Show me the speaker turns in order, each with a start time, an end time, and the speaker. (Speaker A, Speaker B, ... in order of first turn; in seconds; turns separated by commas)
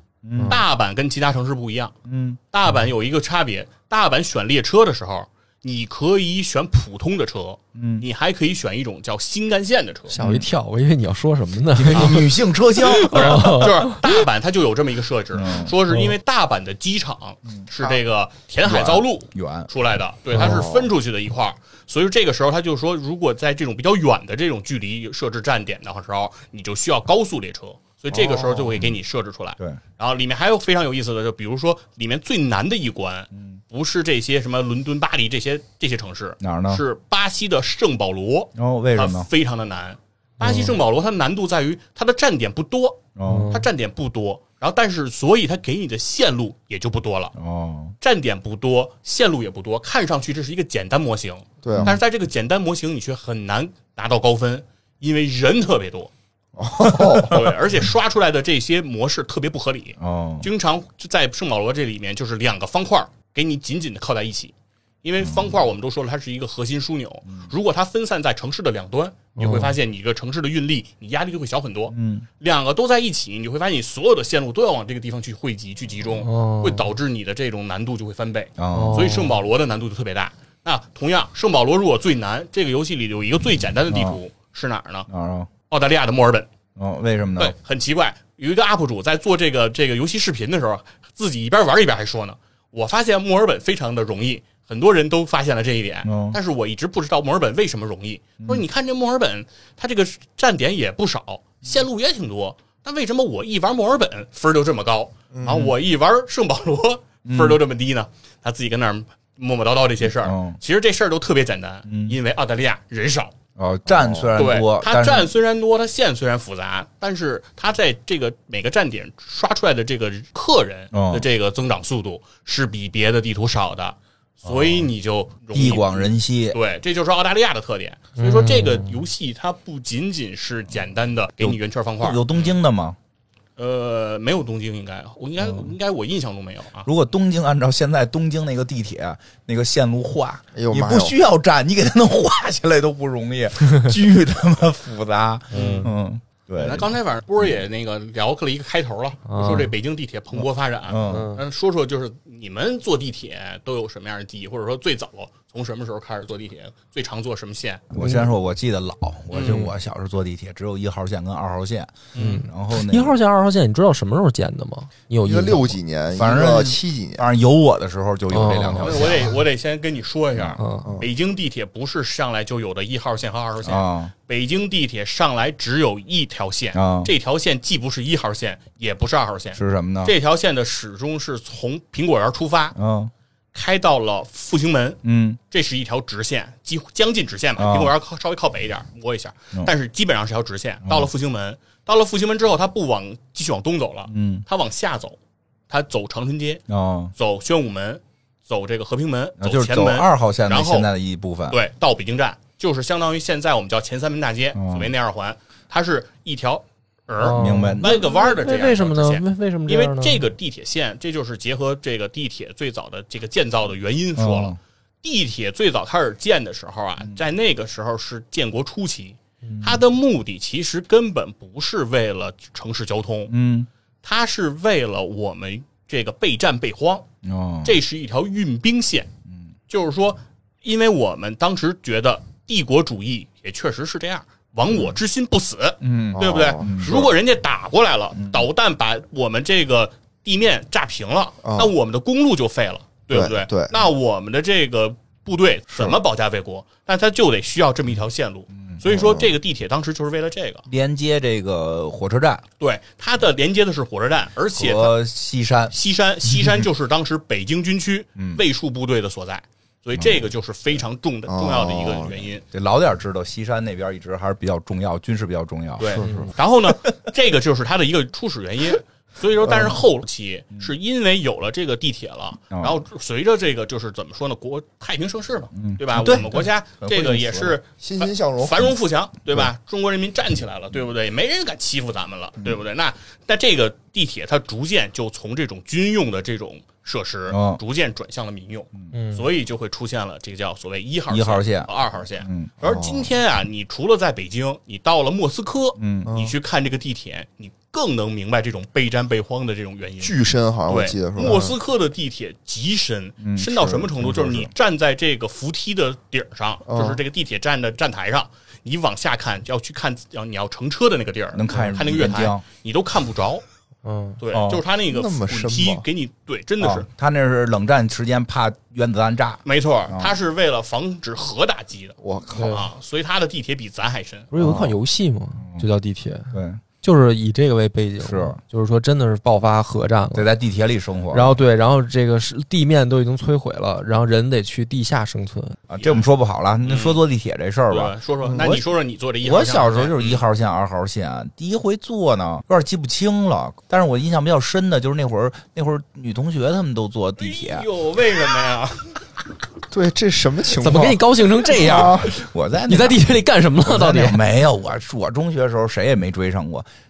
Speaker A: 0.2-0.6, Speaker B: 0.3-0.6, Speaker C: 0.5-1.9, Speaker A: 2.0-2.4, Speaker C: 2.5-10.1, Speaker A: 7.8-8.0, Speaker B: 10.1-14.1, Speaker A: 10.2-10.5, Speaker A: 11.7-13.7, Speaker C: 11.9-12.3, Speaker C: 13.0-47.3, Speaker A: 15.3-15.8, Speaker B: 15.9-16.1, Speaker A: 18.6-19.7, Speaker B: 20.3-20.6, Speaker D: 20.4-20.9, Speaker D: 28.1-28.7, Speaker A: 33.3-33.6, Speaker A: 36.4-36.8, Speaker A: 38.5-39.3, Speaker B: 40.4-40.8, Speaker A: 43.1-43.5, Speaker B: 43.2-43.6, Speaker A: 47.4-47.9, Speaker C: 48.0-56.1, Speaker D: 51.6-51.9, Speaker D: 56.6-57.5, Speaker A: 56.9-57.3, Speaker C: 57.0-85.1, Speaker A: 60.0-60.5, Speaker A: 65.2-65.6, Speaker B: 69.4-69.7, Speaker A: 71.9-72.2, Speaker B: 76.2-76.9, Speaker A: 78.6-79.2, Speaker B: 78.7-79.4, Speaker A: 83.9-84.2, Speaker A: 85.1-85.5, Speaker C: 85.7-86.5, Speaker A: 86.8-87.5, Speaker C: 87.4-113.3, Speaker A: 96.0-96.4, Speaker D: 105.3-105.7, Speaker A: 107.2-107.6, Speaker A: 110.0-110.6, Speaker A: 111.9-112.2, Speaker A: 113.5-115.3, Speaker D: 113.9-114.3, Speaker C: 114.3-132.5, Speaker A: 120.9-121.3, Speaker A: 124.4-124.9, Speaker A: 125.5-126.6, Speaker B: 128.2-129.0, Speaker A: 131.4-133.0, Speaker C: 133.6-136.9, Speaker A: 135.4-135.7, Speaker A: 136.8-147.4, Speaker D: 140.5-141.1, Speaker C: 145.5-145.9, Speaker B: 145.5-145.9, Speaker C: 146.5-157.8, Speaker B: 149.3-149.7, Speaker A: 150.9-151.3, Speaker B: 151.0-151.4, Speaker A: 157.9-163.2, Speaker B: 158.0-158.3, Speaker C: 159.3-159.6, Speaker B: 159.4-159.7, Speaker C: 162.1-162.4, Speaker B: 162.2-165.8, Speaker D: 165.2-167.2, Speaker A: 166.1-169.3, Speaker B: 168.3-169.2, Speaker C: 168.8-182.8, Speaker A: 170.3-170.6, Speaker B: 170.6-171.0, Speaker A: 173.6-174.1, Speaker A: 176.7-177.1, Speaker A: 179.5-180.1, Speaker A: 182.7-183.1, Speaker C: 183.5-195.2, Speaker A: 185.0-185.4, Speaker A: 187.6-187.9, Speaker A: 194.1-194.4, Speaker C: 195.7-196.6, Speaker A: 196.7-197.1, Speaker C: 197.1-200.9, Speaker A: 199.4-201.6, Speaker C: 201.5-223.3, Speaker A: 204.5-204.9, Speaker B: 207.2-210.2, Speaker A: 207.3-207.9, Speaker A: 214.2-214.6, Speaker A: 219.5-219.8, Speaker A: 223.3-223.7, Speaker C: 224.0-227.1, Speaker A: 227.2-227.8, Speaker C: 227.6-229.1, Speaker C: 229.7-250.6, Speaker A: 235.8-237.1, Speaker D: 236.1-237.1, Speaker A: 238.2-238.4, Speaker D: 241.4-241.7, Speaker D: 243.1-243.7, Speaker D: 245.7-246.0, Speaker D: 248.9-249.3, Speaker A: 250.7-252.4, Speaker C: 252.6-255.0, Speaker A: 254.5-255.7, Speaker C: 255.7-262.4, Speaker A: 256.3-256.6, Speaker A: 258.2-258.4, Speaker A: 259.9-260.2, Speaker D: 261.3-262.3, Speaker A: 262.5-266.2, Speaker C: 265.8-300.2, Speaker B: 265.9-266.3, Speaker A: 272.5-272.8, Speaker A: 275.5-277.6, Speaker D: 277.8-278.7, Speaker A: 287.3-287.6, Speaker B: 288.9-289.2, Speaker A: 291.1-291.7, Speaker A: 292.2-292.5, Speaker D: 292.6-293.1, Speaker A: 295.8-296.1, Speaker D: 296.1-296.3, Speaker D: 300.0-301.5, Speaker C: 300.7-313.4, Speaker A: 303.2-304.5, Speaker D: 306.6-307.0, Speaker A: 311.3-312.4, Speaker B: 313.8-314.2, Speaker C: 314.2-316.9, Speaker A: 314.3-314.6, Speaker D: 314.9-315.8, Speaker A: 316.6-320.1, Speaker C: 319.4-324.3, Speaker D: 322.0-322.6, Speaker B: 322.3-322.6, Speaker B: 324.3-330.3, Speaker D: 324.4-324.7, Speaker A: 325.4-325.7, Speaker A: 326.3-326.6, Speaker A: 328.0-328.4, Speaker A: 330.1-331.4, Speaker B: 331.1-335.6, Speaker A: 335.7-338.6, Speaker C: 336.6-337.0, Speaker C: 337.7-340.2, Speaker D: 338.3-338.6, Speaker A: 339.2-347.6, Speaker C: 347.2-349.0, Speaker D: 349.7-351.0, Speaker B: 350.6-352.1, Speaker A: 351.5-353.1, Speaker D: 351.6-351.9, Speaker B: 352.7-354.2, Speaker A: 353.6-356.6